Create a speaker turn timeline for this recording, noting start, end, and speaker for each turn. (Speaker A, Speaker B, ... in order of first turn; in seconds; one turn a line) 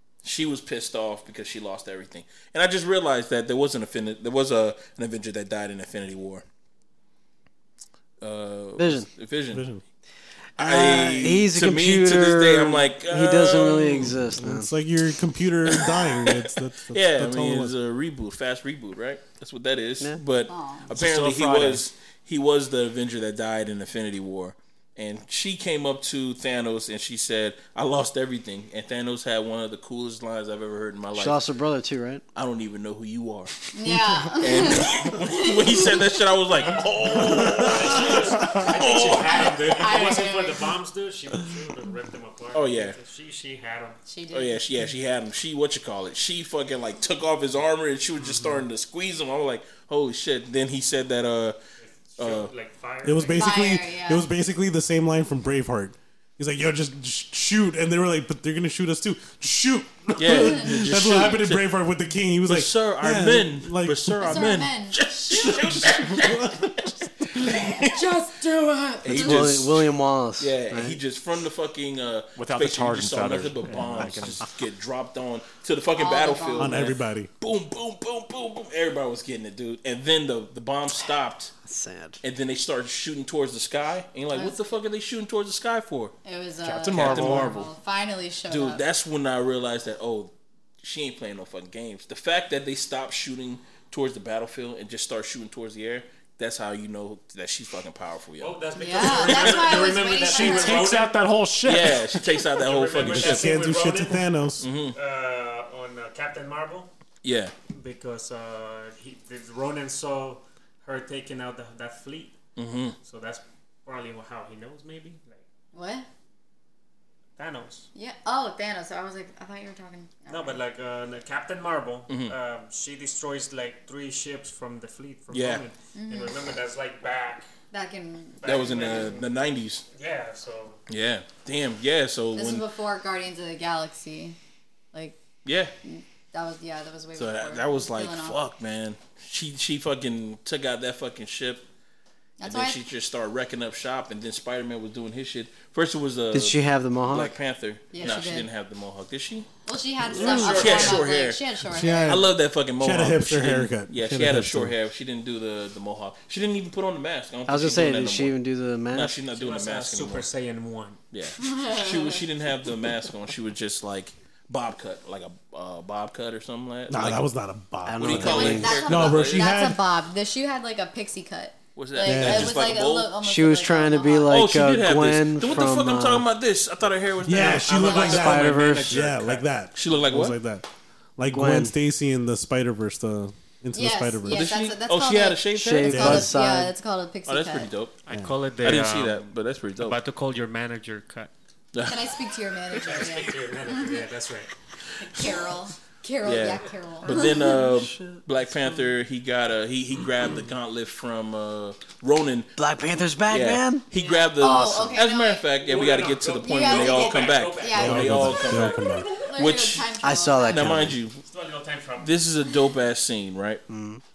Speaker A: 0.2-6.5
Speaker A: 8.2-9.7
Speaker B: 8.8-9.1
Speaker C: 9.5-9.8
Speaker A: 10.6-14.2
Speaker B: 10.6-14.7
Speaker C: 14.3-17.7
Speaker A: 15.7-31.4
Speaker D: 20.5-20.9
Speaker E: 20.9-21.8
Speaker B: 31.1-32.2
Speaker A: 32.4-33.7
Speaker D: 33.7-35.9
Speaker A: 34.3-39.6
Speaker F: 37.2-44.0
Speaker D: 38.6-40.7
Speaker A: 42.5-43.0
Speaker D: 44.1-44.6
Speaker A: 44.3-51.6
Speaker F: 51.8-53.6
Speaker A: 52.2-52.5
Speaker C: 53.0-64.4
Speaker D: 53.4-54.3
Speaker A: 60.2-61.8
Speaker A: 62.5-67.9
Speaker D: 64.2-65.8
Speaker C: 65.4-66.7
Speaker D: 67.4-69.4
Speaker A: 69.0-81.5
Speaker B: 69.1-71.0
Speaker E: 72.4-74.5
Speaker D: 76.0-76.8
Speaker C: 76.6-77.3
Speaker B: 81.7-82.2
Speaker A: 82.2-86.2
Speaker D: 84.3-84.7
Speaker D: 86.2-88.8
Speaker E: 86.6-87.6
Speaker A: 86.9-87.7
Speaker A: 88.5-98.5
Speaker F: 98.4-101.2
Speaker D: 98.8-101.0
Speaker A: 99.1-99.8
Speaker E: 100.2-102.1
Speaker A: 101.7-103.5
Speaker F: 102.5-104.3
Speaker C: 103.0-104.7
Speaker A: 104.6-105.0
Speaker F: 104.9-106.9
Speaker A: 107.2-107.5
Speaker F: 107.7-112.3
Speaker A: 112.6-113.0
Speaker F: 113.0-115.4
Speaker D: 115.7-116.1
Speaker F: 117.4-117.9
Speaker D: 118.0-120.6
Speaker F: 120.3-127.5
Speaker A: 122.1-122.3
Speaker A: 125.3-125.6
Speaker D: 125.9-126.4
Speaker D: 127.7-128.9
Speaker F: 128.4-129.3
Speaker A: 128.4-129.9
Speaker F: 129.9-130.8
Speaker A: 130.9-132.7
Speaker D: 132.3-134.4
Speaker D: 134.9-135.2
Speaker A: 135.4-135.7
Speaker D: 135.8-138.4
Speaker A: 137.2-141.7
Speaker D: 142.4-142.8
Speaker A: 142.4-149.5
Speaker B: 146.3-147.3
Speaker D: 147.9-148.5
Speaker D: 149.7-152.2
Speaker A: 150.2-151.5
Speaker F: 150.2-151.0
Speaker B: 150.3-150.8
Speaker C: 151.7-154.8
Speaker A: 152.0-158.3
Speaker B: 157.5-159.2
Speaker A: 158.9-160.3
Speaker F: 159.3-161.0
Speaker A: 161.1-167.2
Speaker D: 161.4-162.2
Speaker C: 166.9-169.8
Speaker B: 167.9-168.8
Speaker A: 168.0-169.5
Speaker D: 168.2-174.3
Speaker A: 171.8-173.1
Speaker C: 172.0-172.6
Speaker B: 173.2-176.2
Speaker A: 174.3-178.4
Speaker C: 177.3-184.5
Speaker F: 177.3-179.4
Speaker B: 177.8-179.1
Speaker A: 179.7-180.4
Speaker B: 181.3-181.7
Speaker D: 183.7-187.7
Speaker A: 184.3-186.3
Speaker B: 185.6-186.7
Speaker C: 185.8-186.3
Speaker A: 187.3-188.0
Speaker F: 188.1-189.2
Speaker C: 188.1-188.4
Speaker A: 188.6-190.0
Speaker F: 189.8-191.3
Speaker A: 191.7-192.1
Speaker D: 191.9-194.0
Speaker F: 192.7-194.5
Speaker D: 195.0-197.5
Speaker A: 196.2-202.5
Speaker B: 197.1-198.8
Speaker B: 202.6-203.8
Speaker A: 203.3-209.9
Speaker D: 204.0-205.5
Speaker B: 204.5-204.8
Speaker F: 205.6-208.3
Speaker D: 206.4-210.9
Speaker C: 207.8-209.1
Speaker B: 210.0-211.0
Speaker A: 210.5-211.2
Speaker F: 211.2-212.2
Speaker A: 212.0-213.6
Speaker B: 213.7-214.0